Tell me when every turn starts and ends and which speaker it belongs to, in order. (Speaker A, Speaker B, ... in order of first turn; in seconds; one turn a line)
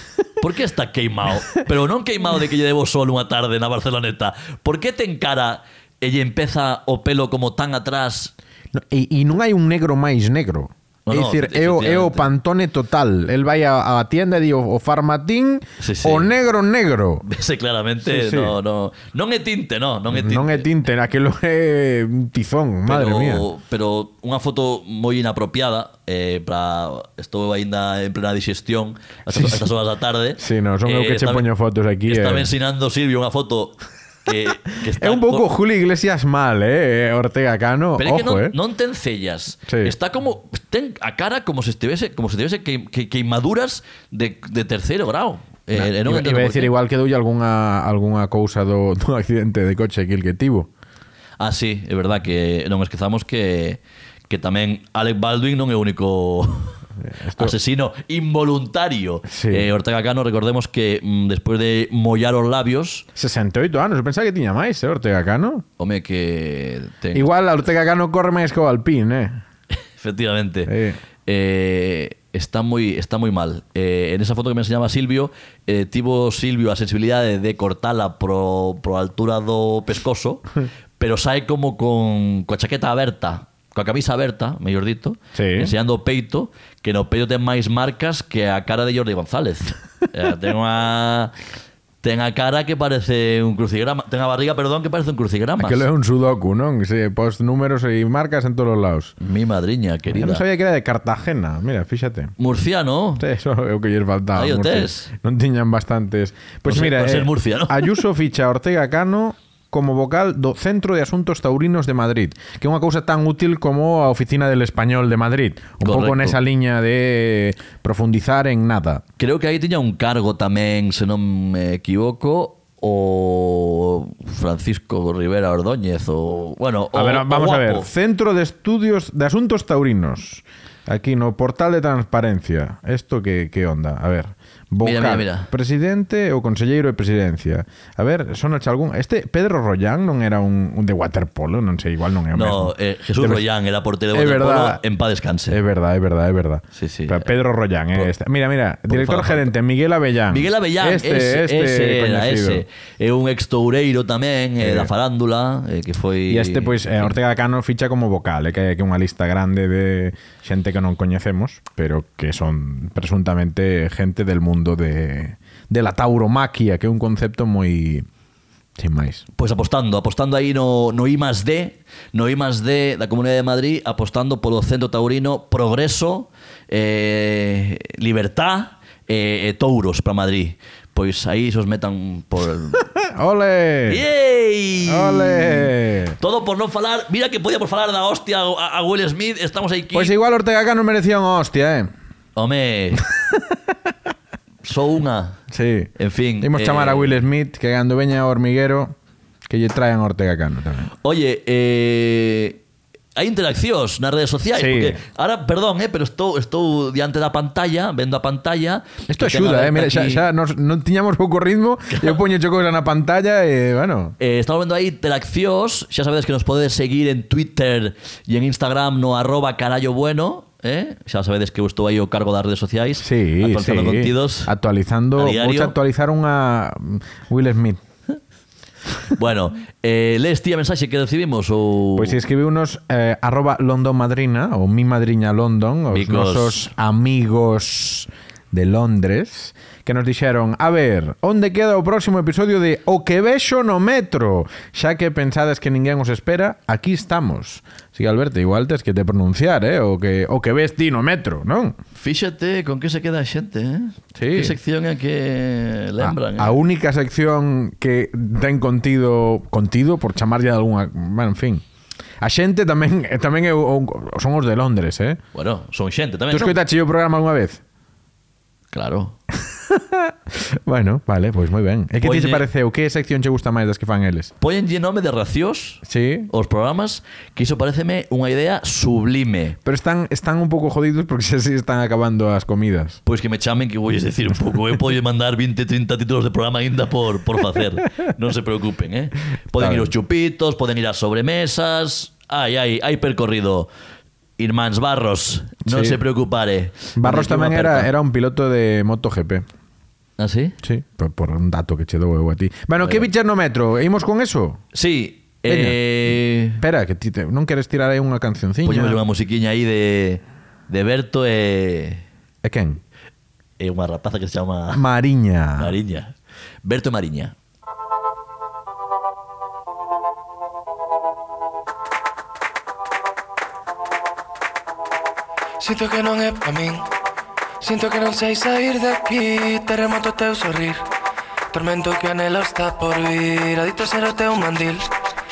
Speaker A: 0.4-8.3
Speaker B: 8.7-17.3
Speaker A: 11.1-12.3
Speaker A: 15.8-16.3
Speaker A: 17.2-20.7
Speaker B: 18.1-18.6
Speaker B: 20.1-23.5
Speaker A: 22.9-31.5
Speaker B: 29.3-29.6
Speaker B: 30.4-32.5
Speaker A: 32.1-35.5
Speaker B: 35.0-38.5
Speaker A: 38.0-46.7
Speaker B: 39.7-39.9
Speaker B: 45.7-50.7
Speaker A: 51.4-56.8
Speaker B: 57.0-57.5
Speaker A: 57.4-63.0
Speaker B: 59.3-59.7
Speaker B: 63.2-65.7
Speaker A: 65.8-67.3
Speaker B: 67.1-69.4
Speaker A: 70.0-70.7
Speaker B: 70.7-71.0
Speaker A: 71.3-80.5
Speaker A: 81.0-91.3
Speaker B: 85.3-85.7
Speaker A: 92.0-95.9
Speaker B: 95.6-99.1
Speaker A: 99.2-100.4
Speaker B: 100.1-102.3
Speaker A: 102.4-103.2
Speaker B: 103.2-119.0
Speaker A: 104.3-105.1
Speaker A: 106.7-108.0
Speaker A: 115.8-116.4
Speaker A: 119.2-127.9
Speaker B: 126.9-143.4
Speaker A: 134.8-135.5
Speaker A: 142.3-145.6
Speaker B: 144.1-144.8
Speaker B: 145.5-152.6
Speaker A: 146.7-147.3
Speaker A: 148.9-149.5
Speaker A: 150.3-157.1
Speaker B: 154.6-154.9
Speaker B: 156.3-168.1
Speaker B: 168.8-169.2
Speaker A: 169.4-182.8
Speaker B: 183.0-184.0
Speaker A: 183.9-190.2
Speaker B: 184.8-186.2
Speaker B: 189.9-191.9
Speaker A: 192.3-193.0
Speaker A: 194.6-195.4
Speaker B: 195.5-198.9
Speaker A: 196.0-197.2
Speaker B: 199.5-200.9
Speaker A: 201.0-202.6
Speaker A: 203.2-210.3
Speaker B: 204.6-205.0
Speaker B: 209.1-214.2
Speaker A: 211.9-212.2
Speaker A: 214.2-224.5
Speaker B: 223.0-227.8
Speaker A: 225.2-225.8
Speaker A: 229.1-232.2
Speaker B: 231.9-251.8
Speaker A: 235.9-236.7
Speaker A: 251.9-256.6
Speaker B: 254.2-254.6
Speaker B: 256.0-261.6
Speaker B: 262.2-265.2
Speaker A: 265.3-266.6
Speaker B: 266.3-267.6
Speaker A: 268.7-269.2
Speaker B: 269.5-274.3
Speaker A: 272.0-272.4
Speaker A: 274.4-279.6
Speaker B: 275.9-276.3
Speaker B: 279.6-283.0
Speaker A: 283.1-293.7
Speaker B: 289.6-289.9
Speaker A: 294.4-297.9
Speaker B: 295.6-296.0
Speaker B: 297.0-299.5
Speaker A: 300.2-300.6
Speaker B: 300.6-304.6
Speaker A: 302.8-303.1
Speaker A: 304.7-306.6
Speaker B: 305.5-305.8
Speaker B: 306.6-309.0
Speaker A: 308.6-312.0
Speaker B: 312.4-312.8
Speaker A: 313.6-314.8
Speaker B: 314.7-315.8
Speaker A: 315.6-317.4
Speaker C: 325.6-326.9
Speaker C: 327.6-330.8
Speaker C: 331.5-334.9